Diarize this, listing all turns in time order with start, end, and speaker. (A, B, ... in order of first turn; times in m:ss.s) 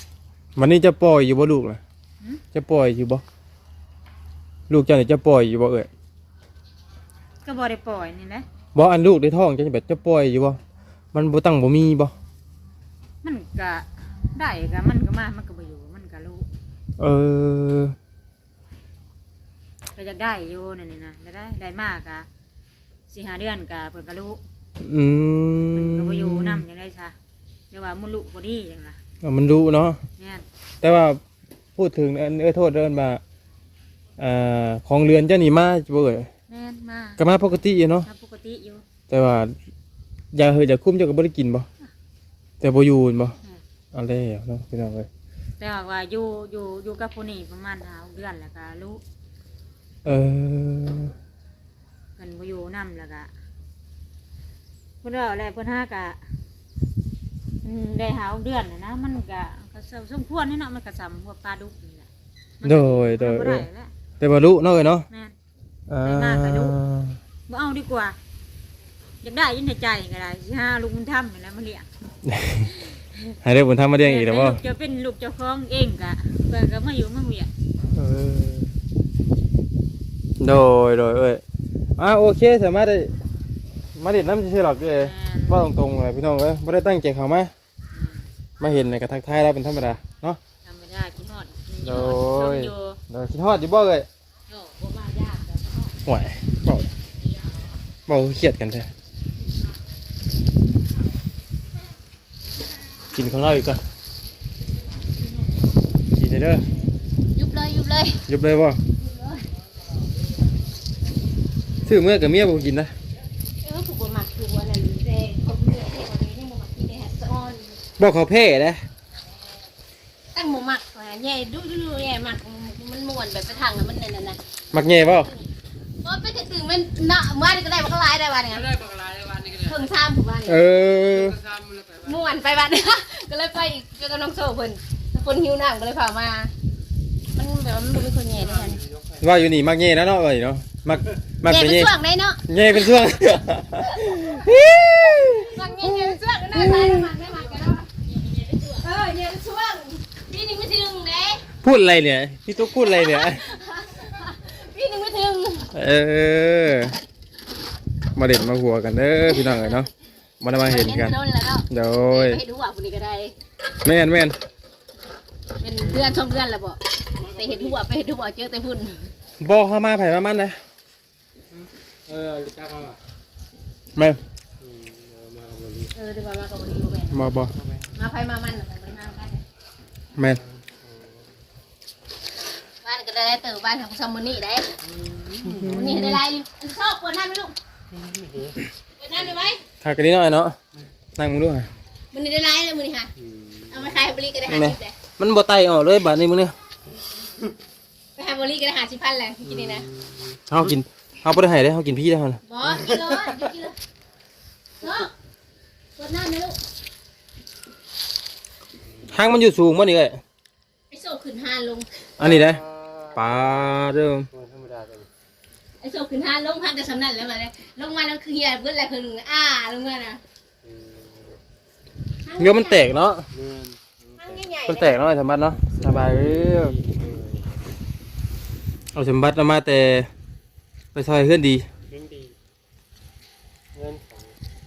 0:00.6-0:01.8 A
0:02.5-0:03.2 A
0:04.7-0:05.9 A
0:07.4-0:08.4 B
0:08.7-0:10.6 A
0:11.1-0:12.1 A
0:13.2-0:16.4 B
0:17.0-0:17.9 A
0:20.0-0:22.3 B
0:23.1-0:24.4 B
0:24.8-0:26.6 A
0:25.7-0:27.1 B
0:27.7-0:29.0 B
0:29.2-0:30.0 A
0:30.2-0:30.4 B
0:30.8-0:31.2 A
0:31.8-0:33.2 A
0:34.2-0:36.3 A
0:36.5-0:37.2 B
0:37.2-0:38.1 A
0:38.0-0:38.8 B
0:39.1-0:39.5 A
0:40.3-0:41.7 A
0:42.6-0:43.3 A
0:43.9-0:45.1 A
0:45.6-0:49.0 B
0:50.0-0:51.1 A
0:52.2-0:53.3 B
0:55.0-0:56.2 B
0:57.6-1:02.1 B
1:02.6-1:03.9 B
1:02.6-1:03.7 A
1:04.2-1:05.1 A
1:05.9-1:07.2 A
1:06.0-1:06.8 B
1:07.5-1:08.2 B
1:09.2-1:11.8 B
1:12.2-1:12.7 A
1:13.4-1:14.6 A
1:14.0-1:17.5 B
1:17.9-1:18.7 A
1:20.4-1:21.4 A
1:22.0-1:23.1 A
1:23.9-1:27.5 A
1:25.0-1:25.6 B
1:28.6-1:30.4 A
1:30.6-1:33.0 B
1:31.8-1:34.1 A
1:34.5-1:35.7 C
1:36.0-1:36.9 A
1:38.1-1:38.9 A
1:43.1-1:43.8 A
1:46.1-1:46.6 A
1:47.3-1:48.2 C
1:48.3-1:48.8 A
1:49.0-1:49.4 C
1:51.8-1:52.9 A
1:53.6-1:57.8 C
1:58.0-1:58.8 A
2:00.3-2:04.4 C
2:04.7-2:05.3 A
2:05.2-2:05.4 C
2:06.0-2:08.7 C
2:08.5-2:09.8 D
2:09.6-2:10.6 C
2:10.4-2:11.4 A
2:11.1-2:12.2 D
2:12.0-2:16.5 C
2:17.3-2:18.8 C
2:18.4-2:19.3 D
2:19.2-2:21.9 A
2:21.4-2:22.4 C
2:22.5-2:27.0 A
2:25.4-2:27.9 C
2:28.0-2:28.6 B
2:28.6-2:31.4 C
2:31.6-2:33.4 A
2:32.6-2:35.7 C
2:35.7-2:37.0 A
2:38.2-2:39.9 A
2:39.3-2:39.7 C
2:40.4-2:41.2 A
2:40.6-2:43.3 C
2:41.7-2:42.4 A
2:43.8-2:44.4 A
2:45.6-2:49.1 C
2:45.8-2:46.2 D
2:47.2-2:47.8 D
2:49.4-2:50.6 A
2:51.5-2:53.0 D
2:54.6-2:55.9 D
2:55.9-2:57.3 C
2:57.1-2:57.5 A
2:57.5-2:57.9 D
2:58.0-2:59.4 C
3:00.3-3:01.3 D
3:02.8-3:04.7 C
3:04.8-3:05.8 D
3:05.4-3:06.2 A
3:05.6-3:07.5 C
3:07.9-3:08.6 D
3:09.0-3:09.6 C
3:09.8-3:10.6 A
3:11.2-3:11.7 A
3:12.1-3:13.1 C
3:13.2-3:13.8 D
3:13.7-3:14.9 C
3:14.5-3:16.5 A
3:18.2-3:19.9 C
3:19.4-3:20.4 D
3:20.5-3:22.4 A
3:22.4-3:23.8 C
3:24.8-3:25.1 C
3:26.0-3:26.6 C
3:29.1-3:30.2 A
3:30.9-3:32.0 C
3:32.2-3:35.1 D
3:32.2-3:32.6 A
3:33.1-3:34.3 A
3:35.8-3:40.2 C
3:40.6-3:41.4 D
3:42.2-3:43.0 C
3:42.4-3:43.2 A
3:43.3-3:44.4 D
3:44.2-3:45.0 C
3:44.6-3:46.7 A
3:45.8-3:47.5 D
3:48.9-3:50.1 A
3:50.9-3:51.6 A
3:51.9-3:52.4 D
3:53.7-3:54.4 D